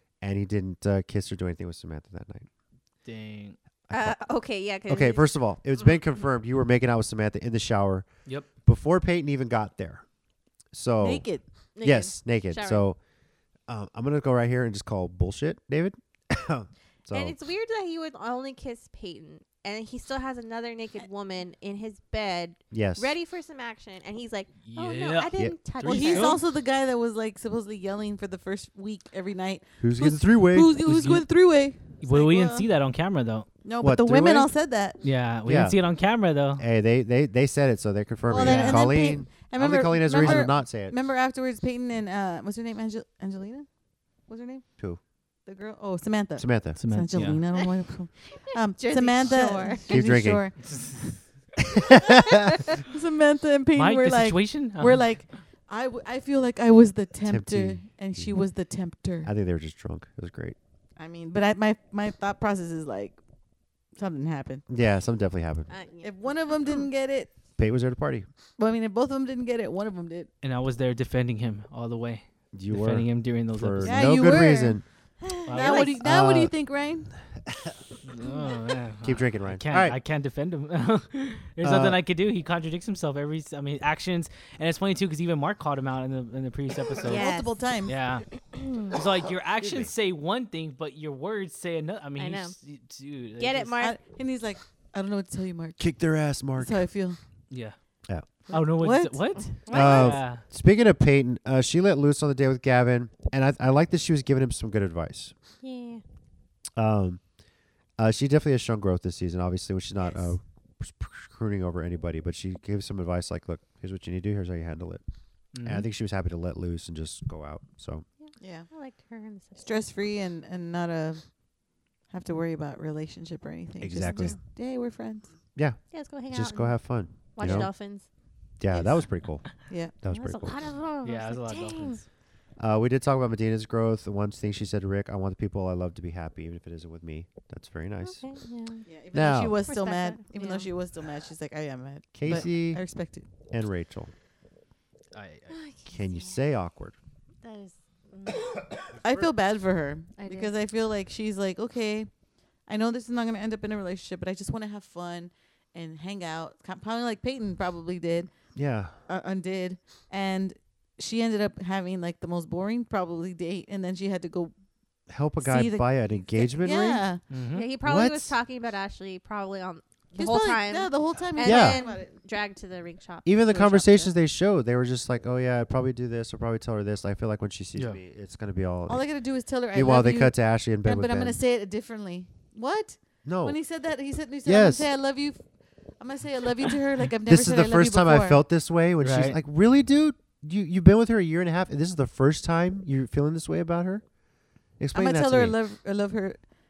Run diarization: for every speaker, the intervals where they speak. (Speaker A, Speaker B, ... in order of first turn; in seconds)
Speaker A: 0.2-2.5, 3.9-4.2, 4.9-10.0, 10.7-11.2, 11.8-13.0, 13.7-17.3, 22.7-23.1, 29.8-30.7, 33.8-34.5, 35.4-35.8, 36.6-40.9, 46.4-46.8, 49.9-50.4, 51.7-52.6, 57.2-58.3, 59.2-60.6, 64.7-65.7, 67.6-68.3, 72.5-74.8, 76.0-76.5, 77.5-77.8, 79.0-80.0, 81.6-82.0, 89.6-89.9, 95.8-96.8, 99.7-105.3, 106.8-107.2, 108.0-115.0, 115.6-118.0, 123.8-124.4, 125.5-127.7, 128.6-129.5, 130.0-130.6, 132.6-138.2, 139.1-139.6, 142.1-142.8, 143.5-144.1, 145.9-146.9, 158.6-158.9, 165.1-167.0, 167.8-168.3, 171.4-171.8, 173.2-179.0, 179.7-181.4, 183.2-183.6, 184.4-184.9, 187.2-194.0, 194.8-195.5
Speaker B: 3.0-3.6, 24.6-26.4, 30.8-31.2, 32.0-33.5, 35.0-36.6, 38.4-38.9, 40.2-40.5, 46.8-47.4, 50.6-51.2, 53.7-55.1, 70.4-74.2, 75.5-76.0, 78.0-87.3, 87.8-88.3, 88.9-93.8, 97.5-97.8, 98.5-100.4, 115.5-115.9, 131.0-132.0, 145.1-145.6, 167.3-167.7, 189.0-189.4
Speaker C: 3.9-6.0, 11.7-12.9, 17.1-26.4, 48.8-49.9, 65.7-66.8, 75.2-76.0, 87.0-87.7, 88.5-89.0, 92.2-92.5, 93.4-94.0, 99.6-100.2, 105.6-106.0, 110.0-110.3, 118.2-119.8, 124.1-124.4, 125.9-126.8, 127.3-128.1, 128.7-129.0, 130.1-132.0, 138.0-138.9, 139.6-140.7, 145.5-146.4, 147.4-148.9, 150.2-150.5, 167.5-174.1
Speaker D: 11.0-11.4, 25.8-32.7, 33.6-35.0, 38.3-43.7, 44.3-44.7, 45.5-50.5, 52.7-59.3, 61.0-63.2, 64.0-64.6, 66.0-67.3, 68.6-70.3, 73.8-74.8, 75.5-77.1, 87.0-87.9, 93.8-95.8, 96.6-97.2, 98.5-99.3, 118.4-118.7, 119.6-121.3, 122.1-125.3, 129.7-129.9, 138.9-143.3, 149.0-152.1, 152.7-158.3, 159.1-164.5, 165.4-167.2, 170.1-172.1, 178.9-185.4, 186.0-188.4, 194.9-196.4